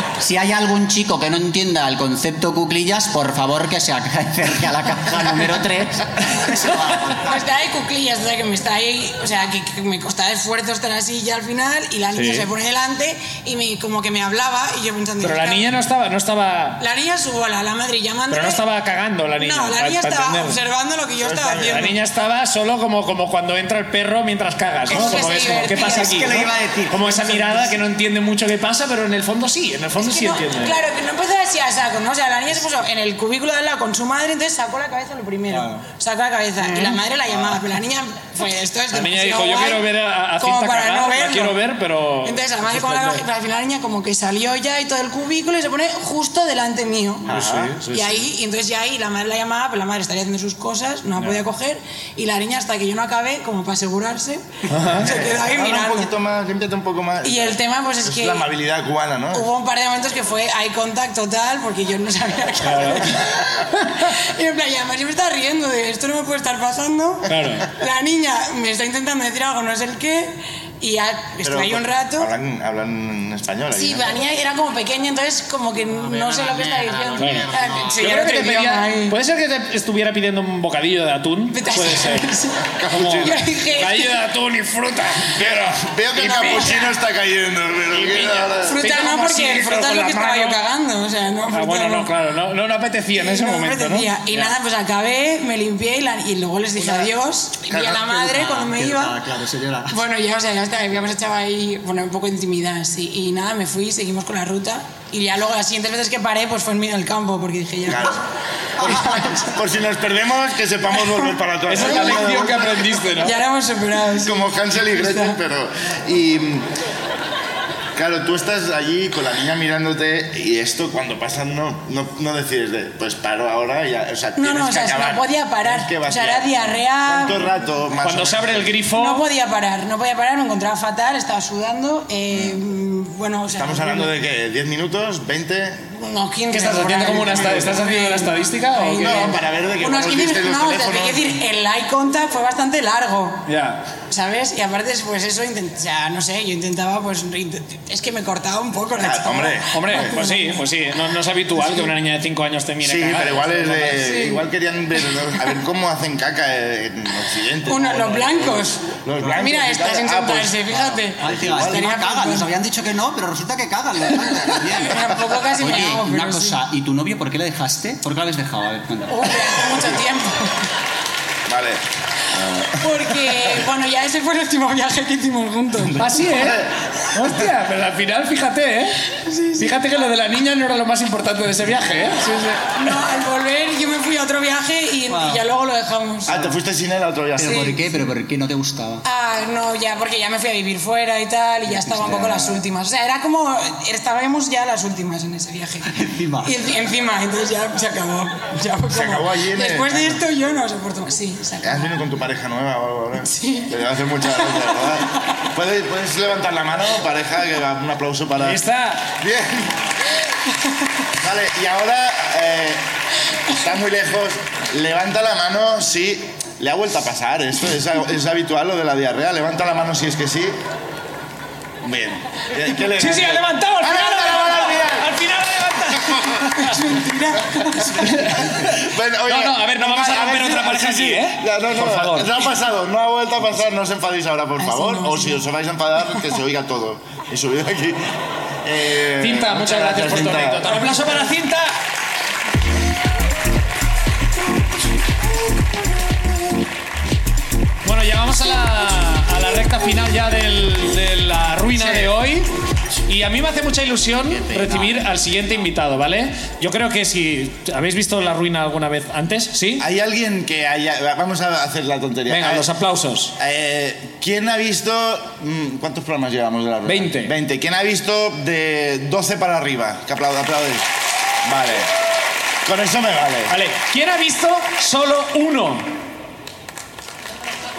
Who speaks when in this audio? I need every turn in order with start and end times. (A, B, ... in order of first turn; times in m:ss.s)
0:00.2-0:07.4 A
0:07.3-0:15.7 B
0:12.1-0:12.5 C
0:15.2-0:16.8 C
0:16.8-0:18.6 B
0:18.3-0:20.6 C
0:19.3-0:22.0 B
0:21.2-0:22.0 D
0:21.7-0:30.8 C
0:24.9-0:26.2 B
0:24.9-0:27.8 A
0:30.0-0:41.6 B
0:35.5-0:35.8 C
0:36.6-0:37.0 C
0:38.9-0:43.2 C
0:42.2-0:47.3 B
0:47.3-0:47.8 D
0:47.3-0:48.3 C
0:47.9-0:54.4 B
0:51.2-0:51.4 C
0:54.7-0:55.1 C
0:55.0-0:56.1 B
0:55.0-0:59.5 D
0:57.2-0:58.5 B
0:59.3-1:12.3 B
1:02.6-1:03.1 C
1:07.3-1:07.7 C
1:11.4-1:14.2 D
1:13.7-1:19.2 B
1:16.0-1:18.3 A
1:17.2-1:22.3 C
1:21.5-1:22.6 B
1:22.7-1:23.4 D
1:22.9-1:26.7 C
1:23.2-1:24.2 B
1:25.4-1:28.8 D
1:26.4-1:26.9 B
1:27.9-1:30.6 C
1:28.6-1:32.1 B
1:31.5-1:34.5 C
1:33.1-1:39.2 B
1:37.7-1:38.2 D
1:38.0-1:40.0 A
1:39.9-1:48.2 B
1:47.9-1:48.2 D
1:48.8-1:53.1 D
1:48.8-1:49.3 A
1:49.0-1:49.4 B
1:51.1-1:52.3 B
1:51.7-1:53.4 C
1:53.1-1:55.4 B
1:54.2-1:56.7 D
1:58.0-2:08.8 D
2:04.4-2:07.5 B
2:08.0-2:09.3 C
2:08.9-2:14.1 B
2:12.3-2:12.6 D
2:13.6-2:15.8 D
2:15.9-2:23.4 B
2:16.5-2:19.4 C
2:17.3-2:17.7 D
2:19.0-2:21.4 D
2:23.4-2:23.8 C
2:24.1-2:30.6 B
2:29.0-2:30.2 D
2:29.7-2:34.0 C
2:32.8-2:41.9 D
2:34.0-2:34.4 B
2:37.7-2:42.5 B
2:40.7-2:49.6 A
2:44.8-2:46.6 B
2:49.1-2:50.7 B
2:51.5-2:53.6 D
2:52.8-2:56.0 B
2:55.9-2:56.7 D
2:56.0-2:59.0 C
2:59.1-3:00.0 B
2:59.6-3:02.7 C
3:02.8-3:06.4 B
3:06.3-3:07.8 D
3:07.4-3:09.0 A
3:07.4-3:07.8 B
3:09.0-3:21.9 B
3:11.7-3:12.5 A
3:15.9-3:16.6 A
3:18.9-3:20.2 D
3:21.6-3:28.6 D
3:23.2-3:23.7 B
3:24.3-3:24.9 B
3:28.4-3:29.1 C
3:29.2-3:29.8 D
3:31.2-3:32.8 D
3:33.5-3:40.6 D
3:41.8-3:45.1 D
3:43.0-3:46.7 C
3:46.0-3:46.5 D
3:46.6-3:48.2 B
3:47.6-4:01.0 D
3:48.0-3:52.4 C
3:54.6-3:55.4 B
3:59.2-4:01.8 C
4:07.8-4:12.5 C
4:13.1-4:19.9 C
4:14.3-4:15.1 A
4:19.8-4:22.7 D
4:22.3-4:23.3 C
4:23.4-4:30.9 D
4:26.9-4:27.3 C
4:31.4-4:31.9 D
4:32.6-4:33.6 D
4:33.5-4:35.9 C